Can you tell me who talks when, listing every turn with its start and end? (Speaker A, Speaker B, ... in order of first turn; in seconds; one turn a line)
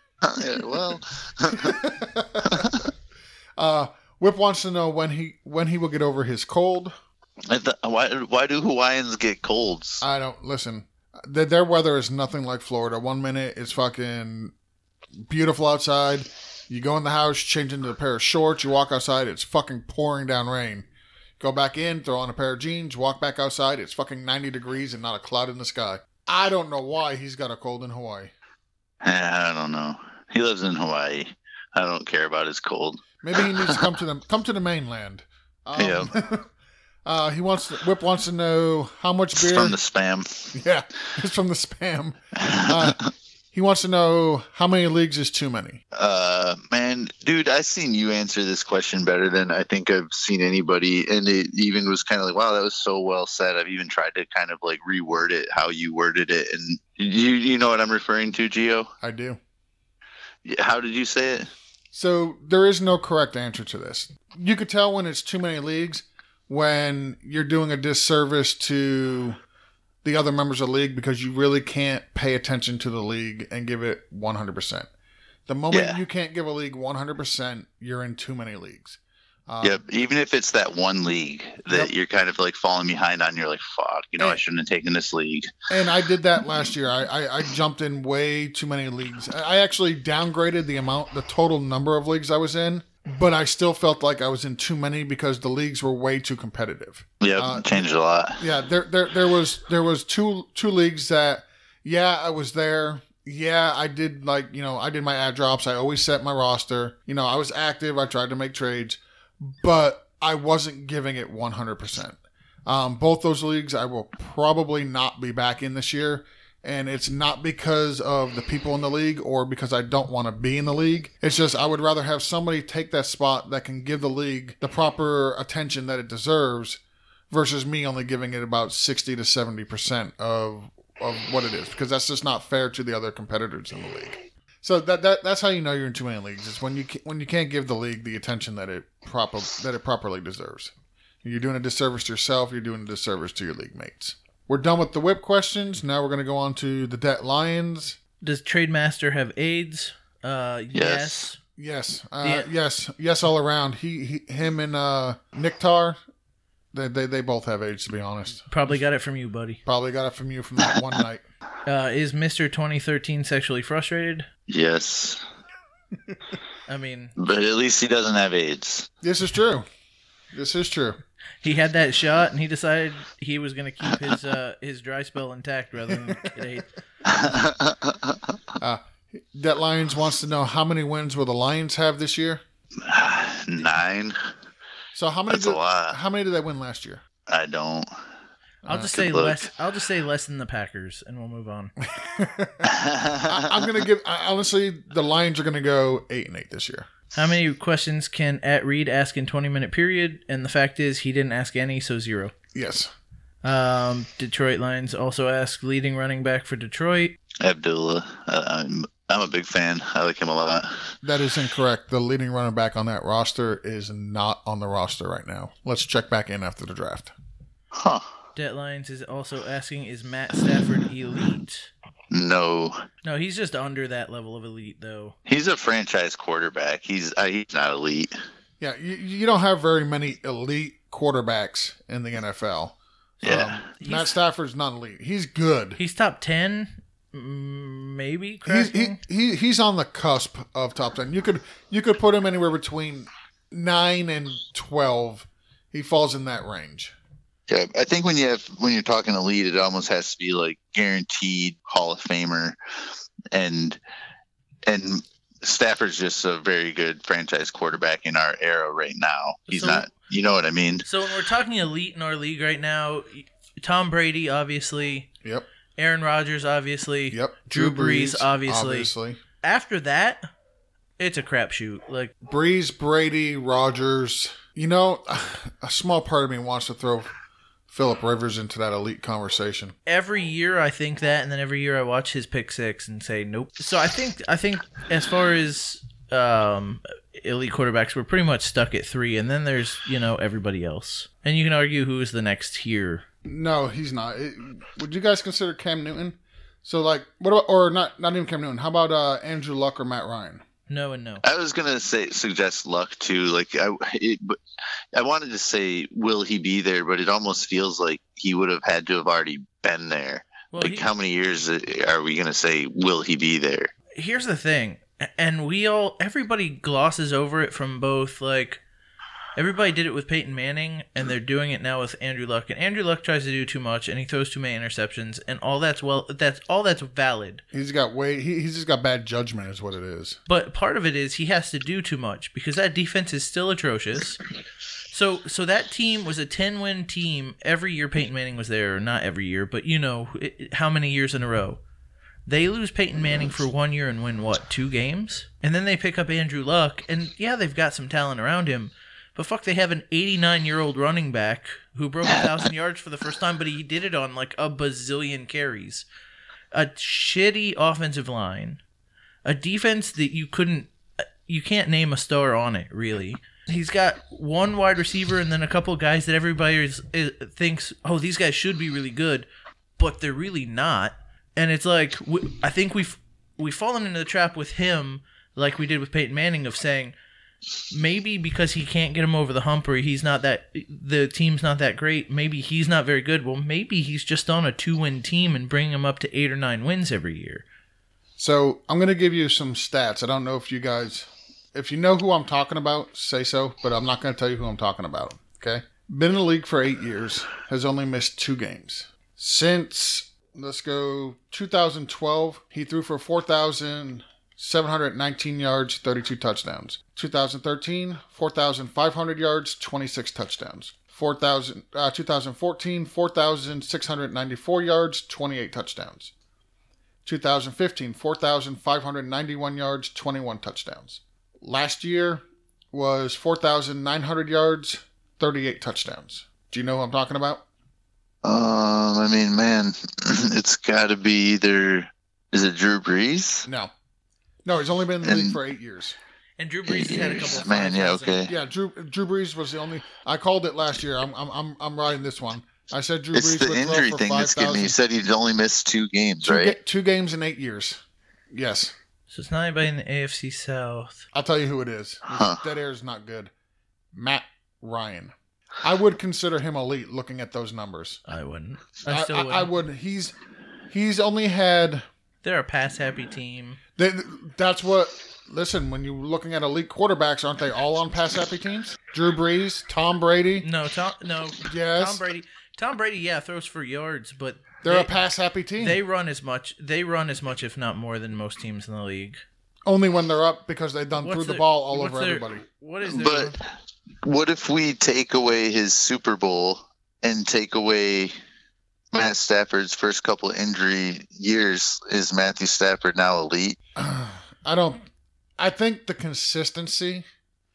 Speaker A: 0.2-1.8
Speaker B: 1.5-2.9
Speaker A: 2.5-2.8
Speaker B: 3.6-6.9
Speaker A: 7.5-10.0
Speaker B: 10.0-14.5
Speaker B: 15.3-20.9
Speaker B: 21.4-28.3
Speaker A: 29.0-33.8
Speaker B: 33.2-36.5
Speaker A: 35.8-36.1
Speaker B: 37.0-39.8
Speaker A: 39.4-40.5
Speaker B: 40.5-45.8
Speaker A: 42.4-43.1
Speaker A: 45.9-58.9
Speaker B: 59.0-59.4
Speaker A: 60.4-61.5
Speaker B: 61.9-69.4
Speaker B: 70.0-74.9
Speaker B: 75.5-79.8
Speaker A: 75.7-76.0
Speaker A: 79.6-85.5
Speaker B: 85.7-97.8
Speaker A: 97.2-98.4
Speaker B: 98.4-126.8
Speaker B: 127.3-140.7
Speaker B: 141.2-148.0
Speaker C: 148.2-151.4
Speaker A: 150.7-151.3
Speaker B: 151.6-156.0
Speaker C: 152.2-152.5
Speaker B: 156.7-158.5
Speaker C: 158.5-159.6
Speaker B: 159.7-161.2
Speaker C: 161.7-164.3
Speaker A: 164.5-165.2
Speaker C: 166.7-167.1
Speaker A: 167.2-168.9
Speaker B: 169.0-169.7
Speaker B: 170.3-171.0
Speaker C: 171.4-176.7
Speaker A: 177.0-178.2
Speaker B: 178.6-182.4
Speaker A: 182.8-184.2
Speaker B: 184.9-187.0
Speaker A: 185.3-186.0
Speaker A: 187.3-187.9
Speaker B: 188.6-188.9
Speaker C: 188.7-191.7
Speaker A: 188.8-189.5
Speaker B: 191.8-196.9
Speaker A: 192.6-193.5
Speaker C: 197.1-202.3
Speaker B: 202.5-202.9
Speaker C: 203.4-207.2
Speaker A: 207.4-210.9
Speaker B: 211.0-217.1
Speaker A: 217.7-218.1
Speaker C: 218.3-221.7
Speaker A: 222.1-222.8
Speaker C: 223.0-225.2
Speaker A: 225.3-228.1
Speaker B: 228.6-235.8
Speaker A: 233.2-233.7
Speaker C: 233.8-234.1
Speaker C: 235.8-239.0
Speaker B: 238.4-246.9
Speaker A: 247.5-252.6
Speaker A: 253.3-253.8
Speaker A: 254.7-260.9
Speaker C: 259.5-259.9
Speaker C: 260.8-265.1
Speaker C: 265.8-268.9
Speaker B: 267.1-269.2
Speaker C: 269.4-270.2
Speaker C: 271.0-272.1
Speaker B: 272.2-277.1
Speaker B: 277.7-279.7
Speaker C: 279.9-293.0
Speaker B: 293.2-300.4
Speaker C: 300.7-301.2
Speaker A: 301.2-304.4
Speaker A: 304.9-313.7
Speaker C: 310.5-310.9
Speaker C: 313.9-318.6
Speaker C: 319.4-327.4
Speaker B: 327.5-330.2
Speaker C: 330.3-334.2
Speaker C: 334.9-341.6
Speaker C: 342.3-355.9
Speaker C: 356.5-358.6
Speaker C: 359.2-360.7
Speaker C: 361.2-369.2
Speaker C: 369.8-376.9
Speaker C: 377.7-387.4
Speaker B: 388.2-416.1
Speaker B: 417.0-427.4
Speaker A: 428.2-433.4
Speaker B: 433.4-433.7
Speaker B: 434.4-436.0
Speaker A: 435.0-435.4
Speaker C: 436.4-438.2
Speaker A: 436.7-438.3
Speaker B: 438.3-444.8
Speaker A: 443.1-446.5
Speaker B: 446.2-448.7
Speaker C: 449.1-451.1
Speaker B: 451.1-453.3
Speaker A: 452.1-452.4
Speaker B: 453.9-458.0
Speaker C: 458.1-459.5
Speaker B: 458.9-460.1
Speaker B: 460.7-461.9
Speaker C: 462.2-463.6
Speaker B: 463.8-470.5
Speaker C: 470.4-474.9
Speaker B: 471.5-472.0
Speaker B: 474.6-475.8
Speaker C: 475.6-479.2
Speaker B: 479.7-482.4
Speaker C: 481.0-483.4
Speaker A: 482.8-483.4
Speaker A: 484.0-488.1
Speaker A: 488.9-493.6
Speaker B: 493.8-494.8
Speaker B: 495.4-497.0